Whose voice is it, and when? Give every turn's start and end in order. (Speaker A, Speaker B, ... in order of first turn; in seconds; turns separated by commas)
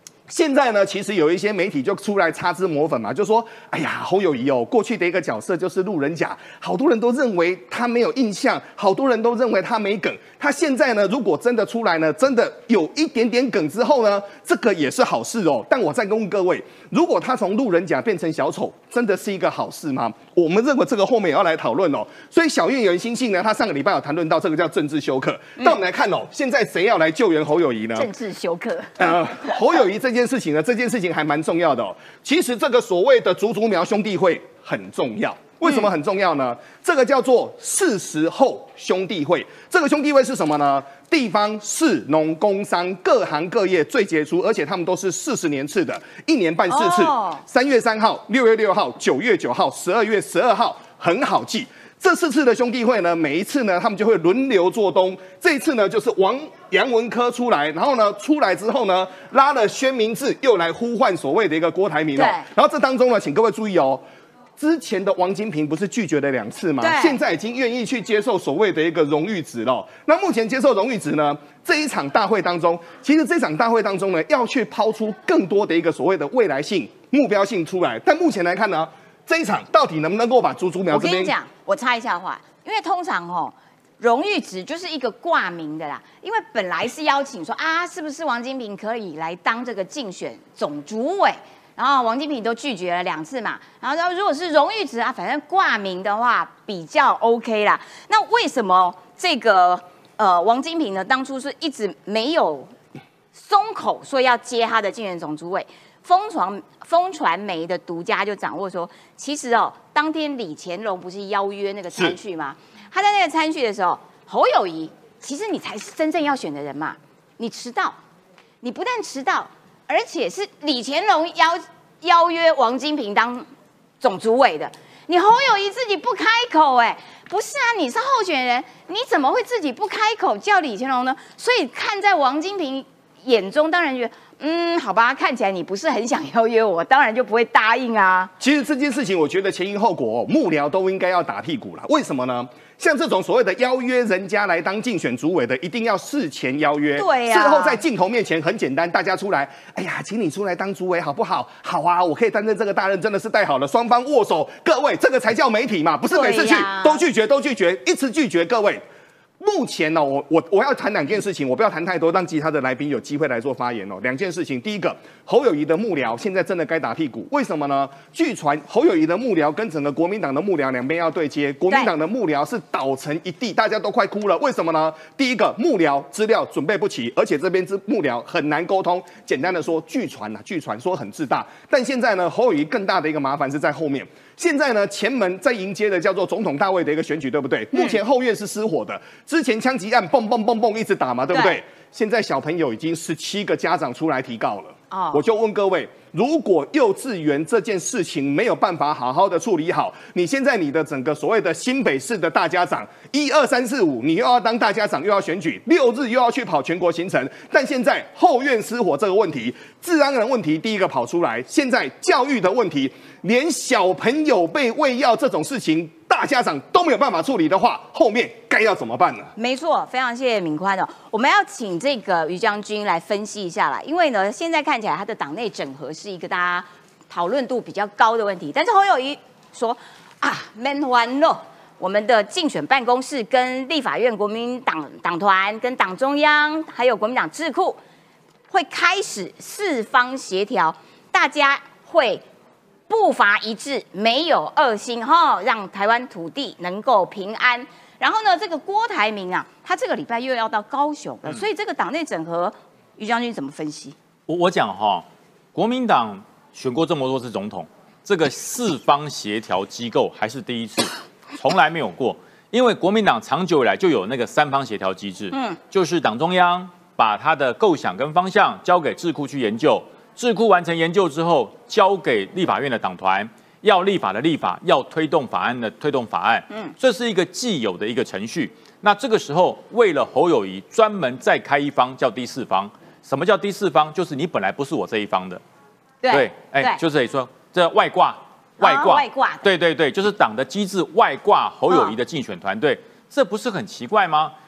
Speaker A: 0.3-28.1, Speaker B: 27.9-29.5, Speaker A: 29.0-64.0, Speaker B: 46.7-47.4, Speaker B: 62.1-62.5, Speaker A: 64.6-81.3, Speaker B: 66.8-67.2, Speaker B: 80.9-102.7, Speaker B: 103.3-118.0, Speaker B: 118.6-123.5, Speaker B: 124.0-138.3, Speaker A: 138.4-158.8, Speaker B: 147.0-147.8, Speaker B: 156.1-157.0, Speaker A: 159.4-219.3, Speaker B: 187.7-188.0, Speaker B: 191.3-191.6, Speaker B: 194.9-195.2, Speaker B: 219.3-237.8, Speaker B: 238.5-242.2, Speaker B: 242.9-253.9, Speaker C: 254.3-285.4, Speaker B: 265.3-265.6, Speaker B: 286.0-286.8, Speaker C: 286.1-294.3, Speaker B: 288.6-289.4, Speaker B: 291.7-291.9